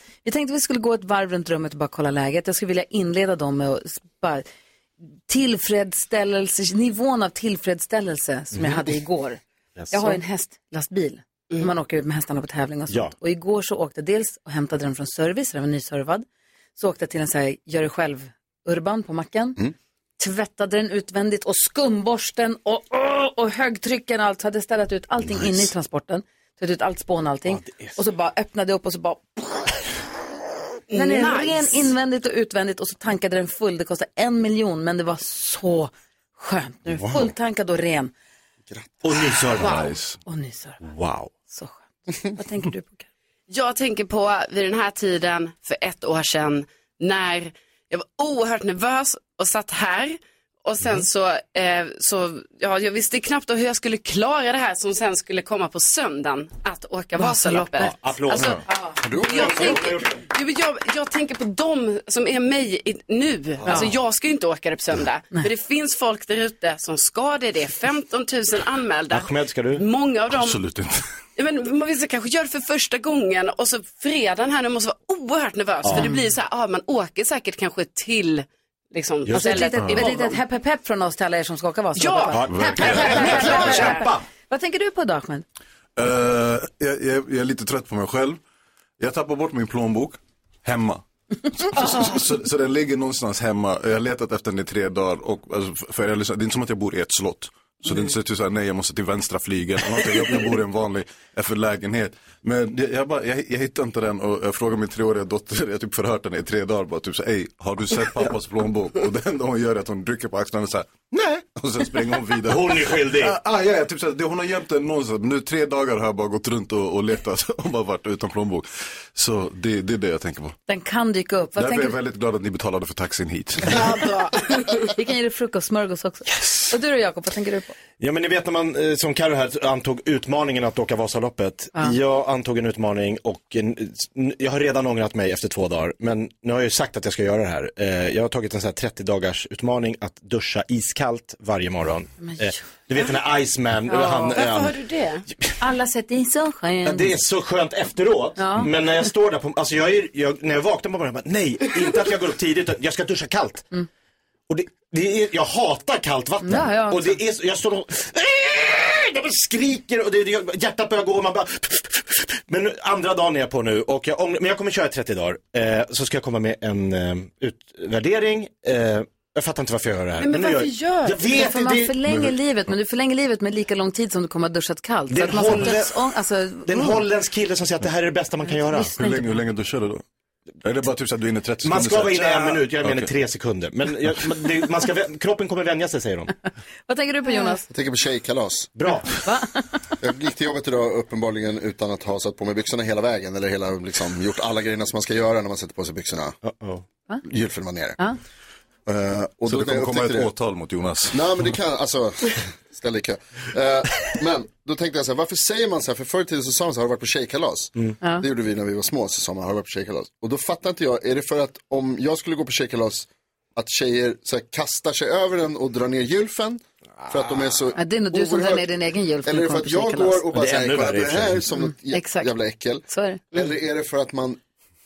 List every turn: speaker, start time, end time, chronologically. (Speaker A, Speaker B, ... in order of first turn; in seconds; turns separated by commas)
Speaker A: 0.2-4.5, Speaker A: 5.3-9.4, Speaker B: 8.5-8.9, Speaker B: 9.8-10.2, Speaker A: 9.9-16.2, Speaker A: 16.8-19.6, Speaker A: 20.2-29.6, Speaker B: 27.5-28.0, Speaker C: 30.9-31.9, Speaker A: 30.9-38.1, Speaker D: 36.9-37.3, Speaker D: 38.7-38.9, Speaker B: 39.0-39.9, Speaker E: 39.6-40.2, Speaker A: 40.3-40.8, Speaker B: 40.8-41.3, Speaker A: 41.5-43.1, Speaker C: 43.5-70.6, Speaker A: 57.2-57.7, Speaker B: 57.7-58.6, Speaker D: 59.0-59.7, Speaker B: 59.3-60.1, Speaker B: 69.1-69.8, Speaker E: 70.3-71.0, Speaker C: 71.4-80.4, Speaker B: 75.8-76.1, Speaker A: 75.9-76.2, Speaker B: 79.3-80.1, Speaker A: 79.3-85.5, Speaker C: 82.0-84.1, Speaker B: 82.3-84.2, Speaker E: 82.5-83.1, Speaker E: 86.0-88.4, Speaker E: 89.0-120.6, Speaker B: 112.4-113.4, Speaker A: 120.7-122.0, Speaker E: 121.6-123.9, Speaker A: 123.7-127.7, Speaker B: 128.0-144.8, Speaker C: 143.9-145.2, Speaker A: 143.9-144.3, Speaker A: 145.6-147.1, Speaker B: 146.8-153.7, Speaker A: 148.4-148.7, Speaker B: 154.5-172.0, Speaker A: 156.4-157.2, Speaker C: 170.2-171.2, Speaker A: 171.2-177.0, Speaker B: 175.1-176.1, Speaker B: 176.7-179.0, Speaker A: 178.5-179.2, Speaker E: 178.9-180.0, Speaker E: 180.6-183.2, Speaker B: 181.6-186.3, Speaker A: 186.9-187.7, Speaker D: 187.7-188.7, Speaker B: 188.8-189.1, Speaker A: 188.9-189.6, Speaker D: 190.0-196.4, Speaker B: 196.4-196.8, Speaker D: 197.2-198.0, Speaker D: 198.9-200.3, Speaker E: 199.5-201.3, Speaker D: 201.1-218.7, Speaker A: 217.8-220.3, Speaker D: 219.2-224.4, Speaker B: 220.3-221.5, Speaker A: 221.6-222.3, Speaker A: 222.9-223.2